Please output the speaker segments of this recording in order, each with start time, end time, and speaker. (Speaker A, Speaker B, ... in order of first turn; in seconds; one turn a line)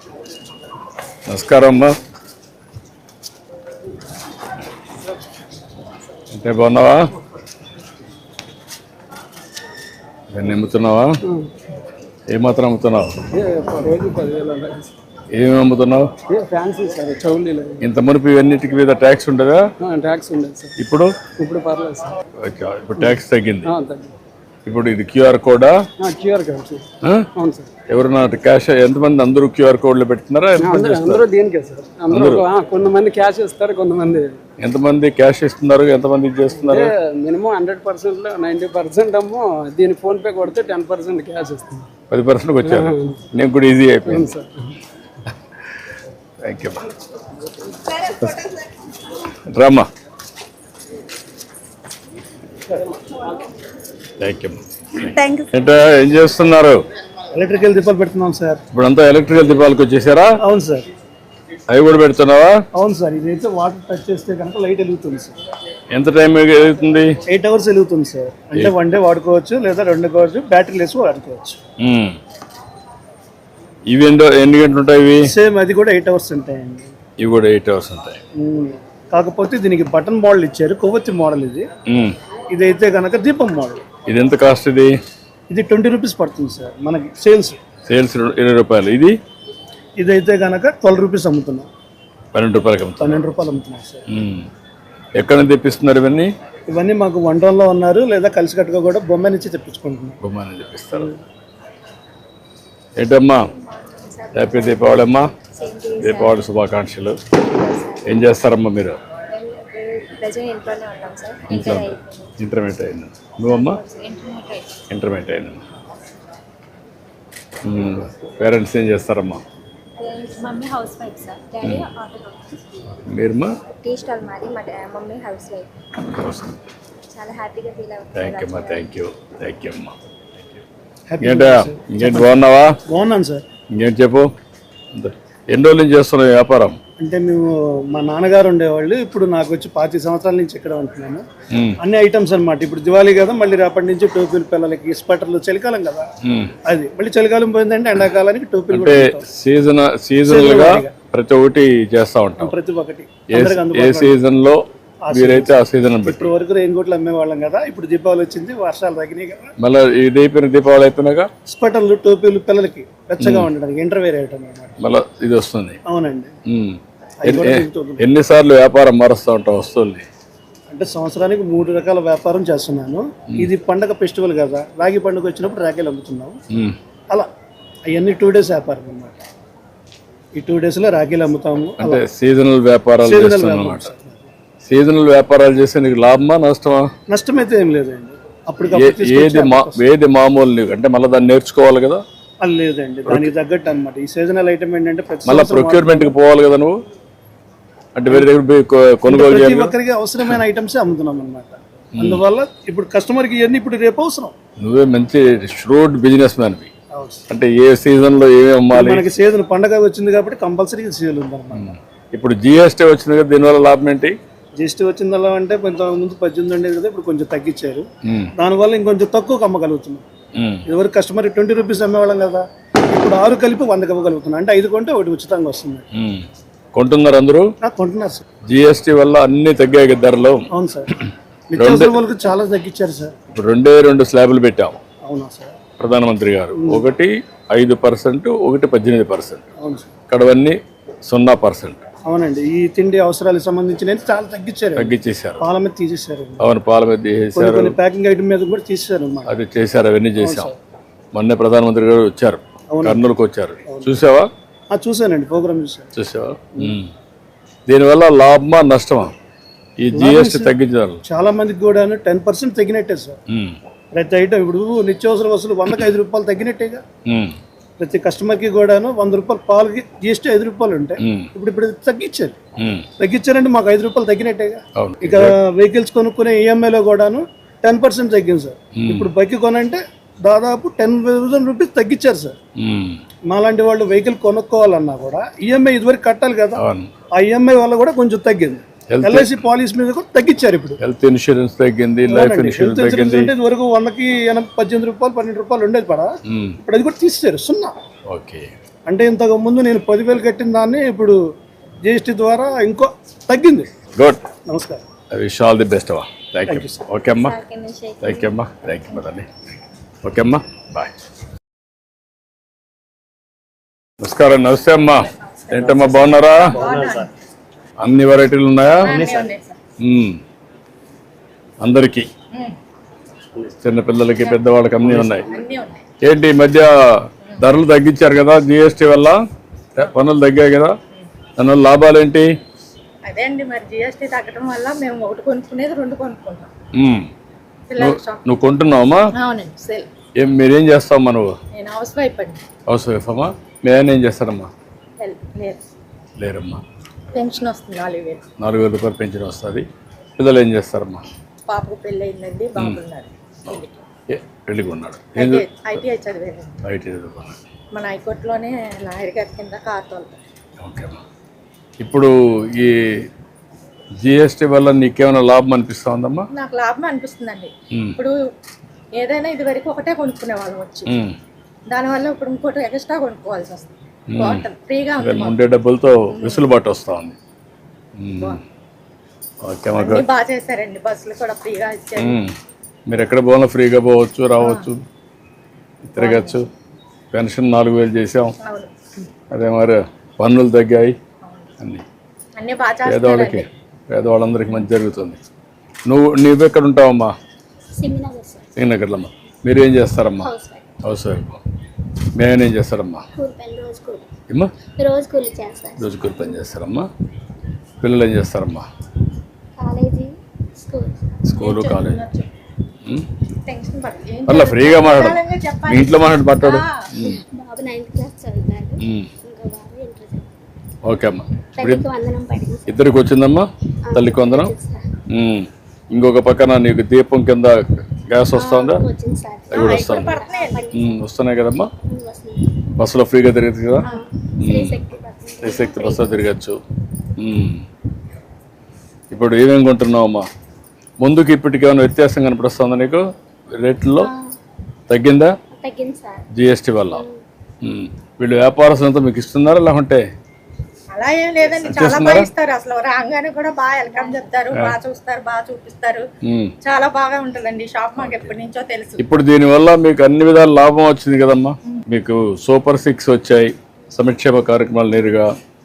Speaker A: 1.3-2.0
Speaker A: 6.3-7.1
Speaker A: 10.3-11.2
Speaker A: 12.3-13.1
Speaker B: 13.3-14.9
Speaker A: 15.3-16.1
Speaker B: 16.3-17.8
Speaker A: 17.8-19.7
Speaker B: 19.8-20.7
Speaker A: 20.8-21.1
Speaker B: 21.4-22.1
Speaker A: 22.4-23.7
Speaker B: 23.7-24.1
Speaker A: 24.7-25.8
Speaker B: 26.0-27.7
Speaker A: 27.0-27.3
Speaker A: 27.9-31.3
Speaker B: 30.6-34.4
Speaker A: 32.1-32.5
Speaker A: 34.6-36.9
Speaker B: 36.5-41.9
Speaker A: 42.1-44.3
Speaker B: 42.6-43.2
Speaker B: 44.1-44.5
Speaker A: 46.4-46.9
Speaker A: 49.5-49.9
Speaker A: 54.2-56.8
Speaker C: 57.4-58.6
Speaker A: 58.7-60.4
Speaker C: 60.4-60.9
Speaker A: 61.7-62.6
Speaker C: 62.8-65.3
Speaker A: 65.9-67.2
Speaker C: 67.3-71.6
Speaker A: 71.8-72.2
Speaker A: 73.9-75.3
Speaker C: 75.3-76.9
Speaker A: 77.2-78.2
Speaker C: 78.4-81.7
Speaker A: 81.9-82.2
Speaker C: 82.5-83.8
Speaker A: 84.1-84.9
Speaker C: 85.5-87.6
Speaker A: 87.9-89.2
Speaker C: 90.0-91.7
Speaker A: 92.3-93.2
Speaker C: 93.0-94.0
Speaker A: 94.1-94.5
Speaker A: 95.2-96.3
Speaker C: 96.7-100.2
Speaker A: 100.2-101.2
Speaker A: 103.0-103.5
Speaker D: 103.5-106.5
Speaker A: 104.3-105.3
Speaker A: 106.0-107.2
Speaker D: 107.5-108.3
Speaker A: 108.0-109.0
Speaker D: 109.3-112.3
Speaker A: 111.5-113.8
Speaker D: 113.4-114.7
Speaker A: 114.9-115.6
Speaker A: 117.6-119.4
Speaker D: 120.0-122.8
Speaker A: 121.6-121.9
Speaker A: 123.1-123.5
Speaker D: 123.8-125.7
Speaker A: 126.1-126.6
Speaker D: 127.1-128.9
Speaker A: 128.1-130.6
Speaker C: 131.1-132.3
Speaker A: 131.2-132.8
Speaker C: 132.9-133.4
Speaker A: 133.8-134.3
Speaker A: 134.9-136.8
Speaker C: 137.0-141.2
Speaker C: 141.8-146.1
Speaker A: 146.2-146.5
Speaker C: 146.7-149.2
Speaker A: 148.7-152.5
Speaker C: 150.2-150.9
Speaker C: 152.4-154.2
Speaker A: 153.3-156.3
Speaker C: 155.1-159.5
Speaker A: 159.6-161.3
Speaker C: 161.5-164.8
Speaker A: 163.2-163.5
Speaker A: 164.8-165.8
Speaker C: 165.9-166.3
Speaker A: 166.5-170.1
Speaker C: 167.2-168.1
Speaker C: 170.7-176.4
Speaker C: 177.9-179.2
Speaker C: 180.4-182.0
Speaker A: 181.8-183.9
Speaker C: 183.0-184.3
Speaker A: 184.7-186.9
Speaker C: 187.1-189.8
Speaker A: 188.7-192.0
Speaker C: 192.4-196.1
Speaker A: 195.3-196.8
Speaker A: 197.9-199.7
Speaker C: 199.1-204.3
Speaker A: 201.9-202.2
Speaker A: 204.6-206.7
Speaker C: 206.9-207.2
Speaker A: 207.3-209.0
Speaker C: 208.7-211.8
Speaker A: 211.5-214.2
Speaker C: 214.6-217.9
Speaker A: 218.1-218.3
Speaker C: 218.4-220.0
Speaker A: 220.4-220.6
Speaker C: 220.7-225.8
Speaker A: 226.0-227.5
Speaker C: 227.6-228.2
Speaker A: 228.5-230.4
Speaker C: 230.5-230.9
Speaker C: 231.5-233.1
Speaker A: 231.6-232.0
Speaker A: 233.3-234.8
Speaker C: 235.1-235.6
Speaker A: 235.8-239.5
Speaker C: 236.6-236.8
Speaker C: 239.6-239.9
Speaker A: 240.1-241.8
Speaker C: 242.1-246.4
Speaker A: 244.8-245.4
Speaker A: 246.4-247.8
Speaker C: 247.3-249.3
Speaker A: 249.3-250.5
Speaker C: 250.2-250.6
Speaker A: 251.1-254.3
Speaker C: 252.7-253.1
Speaker C: 253.7-253.9
Speaker C: 254.7-255.9
Speaker A: 256.0-256.9
Speaker A: 257.7-259.1
Speaker A: 259.8-261.0
Speaker C: 259.9-260.5
Speaker C: 261.1-263.2
Speaker A: 263.3-263.6
Speaker C: 263.9-266.8
Speaker A: 267.1-267.4
Speaker C: 267.8-272.4
Speaker A: 271.0-271.3
Speaker A: 272.6-272.9
Speaker C: 273.0-282.4
Speaker A: 274.8-275.3
Speaker A: 278.8-279.1
Speaker A: 282.6-283.0
Speaker C: 283.3-286.6
Speaker A: 286.6-286.9
Speaker C: 287.2-290.8
Speaker A: 288.9-289.4
Speaker A: 290.8-293.3
Speaker C: 292.1-297.8
Speaker A: 296.3-296.6
Speaker A: 298.1-298.5
Speaker C: 298.9-301.2
Speaker C: 301.9-303.7
Speaker C: 304.5-304.8
Speaker A: 305.1-307.4
Speaker C: 306.5-306.8
Speaker E: 307.1-308.3
Speaker A: 308.0-309.3
Speaker A: 310.0-310.9
Speaker A: 314.0-316.6
Speaker F: 315.4-317.1
Speaker A: 317.8-319.1
Speaker F: 318.8-319.6
Speaker A: 319.8-320.2
Speaker A: 321.6-322.1
Speaker A: 323.6-325.3
Speaker F: 325.2-325.8
Speaker A: 326.0-329.2
Speaker A: 329.8-330.8
Speaker A: 331.4-332.3
Speaker F: 333.1-336.5
Speaker A: 336.8-337.1
Speaker F: 337.7-338.4
Speaker A: 337.8-339.1
Speaker F: 339.1-339.9
Speaker A: 340.2-341.4
Speaker F: 341.5-342.4
Speaker A: 342.7-344.5
Speaker F: 345.0-345.6
Speaker A: 346.2-346.6
Speaker F: 347.1-348.2
Speaker A: 348.4-349.7
Speaker A: 350.2-351.1
Speaker F: 351.5-353.8
Speaker A: 353.5-355.4
Speaker F: 355.2-356.6
Speaker A: 356.6-357.4
Speaker F: 357.7-360.2
Speaker A: 360.6-361.0
Speaker A: 361.8-363.1
Speaker A: 364.0-366.3
Speaker F: 366.3-368.1
Speaker F: 368.9-371.0
Speaker A: 370.9-371.2
Speaker F: 371.7-375.4
Speaker A: 374.1-374.5
Speaker A: 375.0-377.2
Speaker F: 376.1-376.5
Speaker A: 378.0-378.4
Speaker A: 379.4-380.1
Speaker F: 379.7-382.2
Speaker A: 382.0-382.3
Speaker A: 382.9-384.8
Speaker F: 384.4-384.7
Speaker A: 385.9-386.5
Speaker F: 386.0-386.4
Speaker A: 387.1-388.4
Speaker F: 388.4-388.7
Speaker A: 389.3-391.0
Speaker F: 391.2-391.5
Speaker F: 392.4-393.5
Speaker A: 392.9-395.2
Speaker A: 395.9-397.1
Speaker E: 397.8-398.5
Speaker A: 398.6-400.3
Speaker E: 400.2-400.7
Speaker A: 400.8-401.4
Speaker A: 402.1-403.1
Speaker E: 403.2-404.1
Speaker E: 404.8-406.5
Speaker A: 405.8-406.9
Speaker A: 407.8-408.7
Speaker E: 409.6-411.1
Speaker A: 411.2-412.0
Speaker F: 411.4-412.3
Speaker F: 413.4-416.9
Speaker A: 414.3-417.2
Speaker E: 417.0-420.3
Speaker A: 418.8-419.1
Speaker A: 420.8-421.9
Speaker E: 421.6-422.7
Speaker A: 422.7-424.5
Speaker E: 423.9-424.8
Speaker A: 425.1-428.9
Speaker E: 428.3-431.0
Speaker A: 429.5-430.2
Speaker F: 429.5-430.7
Speaker A: 430.7-431.7
Speaker E: 431.9-432.6
Speaker A: 432.8-433.9
Speaker E: 433.8-436.3
Speaker A: 434.4-434.8
Speaker A: 435.4-436.6
Speaker A: 437.2-437.6
Speaker A: 439.1-440.3
Speaker A: 441.0-444.1
Speaker E: 444.0-444.3
Speaker A: 444.9-445.4
Speaker E: 445.6-446.3
Speaker A: 446.3-447.0
Speaker E: 446.9-447.2
Speaker A: 447.6-450.1
Speaker F: 450.9-456.1
Speaker A: 451.6-452.3
Speaker E: 453.9-454.2
Speaker A: 454.5-454.8
Speaker A: 456.2-456.5
Speaker F: 456.6-459.1
Speaker A: 458.0-458.4
Speaker A: 459.0-465.3